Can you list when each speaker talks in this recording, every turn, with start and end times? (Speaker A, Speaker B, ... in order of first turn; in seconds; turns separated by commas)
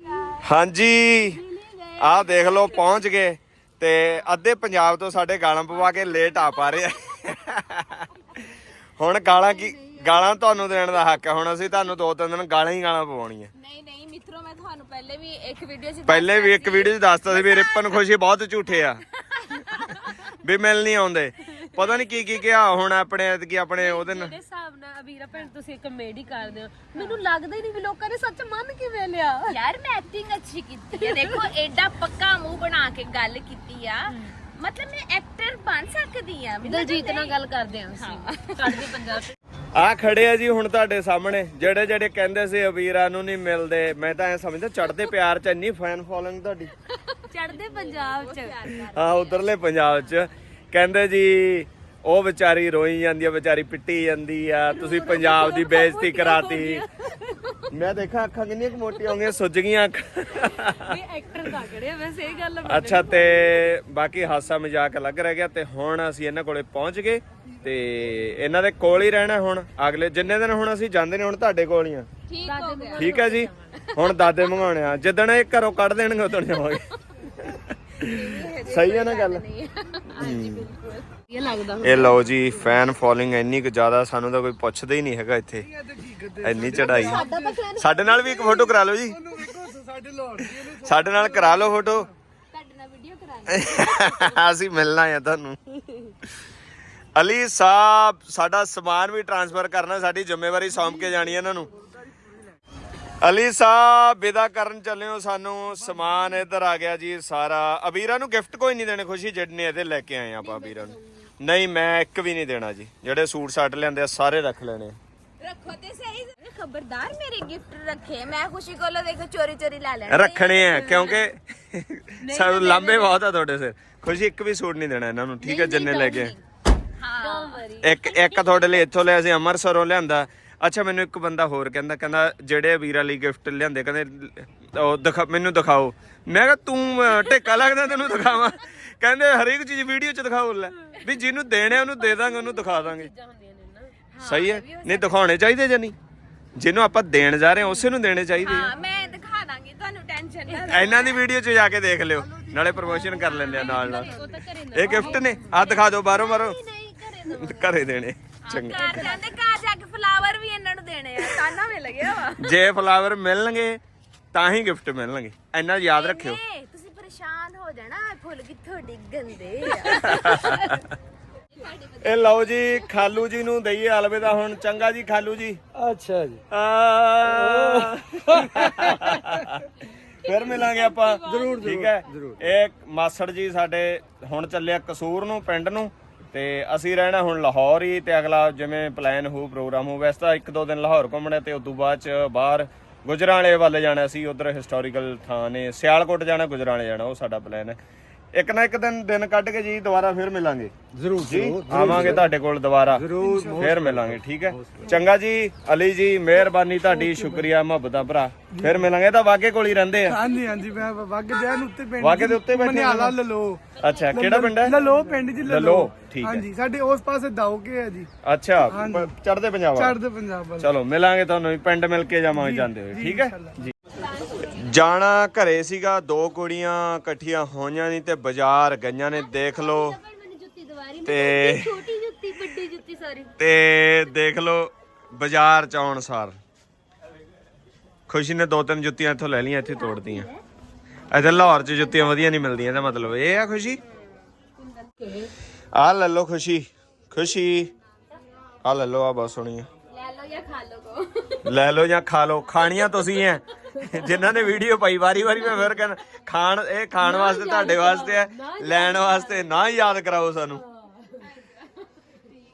Speaker A: 0.4-1.4, Speaker B: 1.4-2.8, Speaker A: 2.0-8.4, Speaker A: 9.0-13.5, Speaker C: 13.6-18.1, Speaker A: 16.1-19.0, Speaker C: 19.3-20.1, Speaker A: 20.4-24.3, Speaker B: 23.8-29.6, Speaker C: 29.5-37.4, Speaker B: 31.0-31.5, Speaker B: 36.6-39.4, Speaker C: 38.0-38.9, Speaker A: 39.8-46.7, Speaker C: 47.1-49.6, Speaker B: 47.3-48.6, Speaker A: 48.9-56.8, Speaker B: 54.7-57.6, Speaker A: 57.7-61.0, Speaker B: 60.8-63.6, Speaker A: 62.6-72.1, Speaker C: 72.3-74.5, Speaker B: 72.4-73.5, Speaker A: 73.0-76.9, Speaker A: 77.4-79.4, Speaker C: 78.0-81.1, Speaker A: 80.2-80.7, Speaker B: 81.3-82.3, Speaker A: 81.8-85.7, Speaker D: 85.6-87.7, Speaker A: 86.4-87.2, Speaker C: 86.7-88.9, Speaker A: 87.8-89.2, Speaker D: 89.0-92.1, Speaker A: 90.8-92.1, Speaker C: 92.5-94.4, Speaker A: 93.5-95.6, Speaker A: 97.2-101.7, Speaker A: 103.2-115.0, Speaker D: 105.9-106.3, Speaker B: 110.4-111.0, Speaker C: 115.4-121.3, Speaker A: 120.1-126.3, Speaker B: 120.9-121.2, Speaker B: 122.2-123.2, Speaker C: 125.4-126.3, Speaker B: 125.5-126.3, Speaker C: 127.0-127.7, Speaker B: 127.2-128.8, Speaker A: 127.8-143.1, Speaker B: 137.1-138.5, Speaker B: 141.7-144.0, Speaker C: 144.1-145.4, Speaker A: 144.2-145.9, Speaker A: 146.6-148.7, Speaker C: 148.4-151.2, Speaker B: 150.5-151.1, Speaker A: 150.7-154.1, Speaker C: 152.8-155.2, Speaker B: 152.9-157.8, Speaker A: 154.7-156.6, Speaker A: 157.3-159.1, Speaker C: 158.4-162.6, Speaker B: 158.7-159.3, Speaker A: 162.4-163.8, Speaker A: 164.3-166.4, Speaker C: 165.9-170.6, Speaker A: 169.9-170.8, Speaker B: 170.0-170.5, Speaker C: 171.5-173.1, Speaker A: 172.0-175.6, Speaker E: 175.8-176.4, Speaker A: 176.5-179.7, Speaker E: 177.2-179.0, Speaker B: 180.2-181.7, Speaker A: 180.2-197.8, Speaker E: 181.2-182.4, Speaker A: 198.3-210.2, Speaker E: 200.9-202.3, Speaker E: 202.9-204.9, Speaker D: 203.1-203.7, Speaker D: 206.8-207.5, Speaker D: 208.5-208.8, Speaker D: 210.1-213.6, Speaker A: 212.0-213.2, Speaker A: 213.8-214.8, Speaker B: 213.8-215.2, Speaker D: 214.2-218.1, Speaker A: 215.4-216.4, Speaker A: 218.2-220.0, Speaker D: 218.7-219.1, Speaker D: 219.8-220.7, Speaker A: 220.6-223.7, Speaker D: 222.3-223.6, Speaker C: 223.9-224.6, Speaker A: 224.4-229.9, Speaker B: 229.1-233.3, Speaker A: 231.1-231.7, Speaker A: 233.4-236.4, Speaker A: 238.1-240.3, Speaker B: 239.7-240.4, Speaker A: 241.1-243.8, Speaker B: 244.6-245.3, Speaker A: 245.8-247.7, Speaker A: 248.6-249.7, Speaker C: 249.9-251.5, Speaker A: 251.4-260.6, Speaker B: 257.0-259.8, Speaker B: 260.5-261.3, Speaker C: 261.2-262.4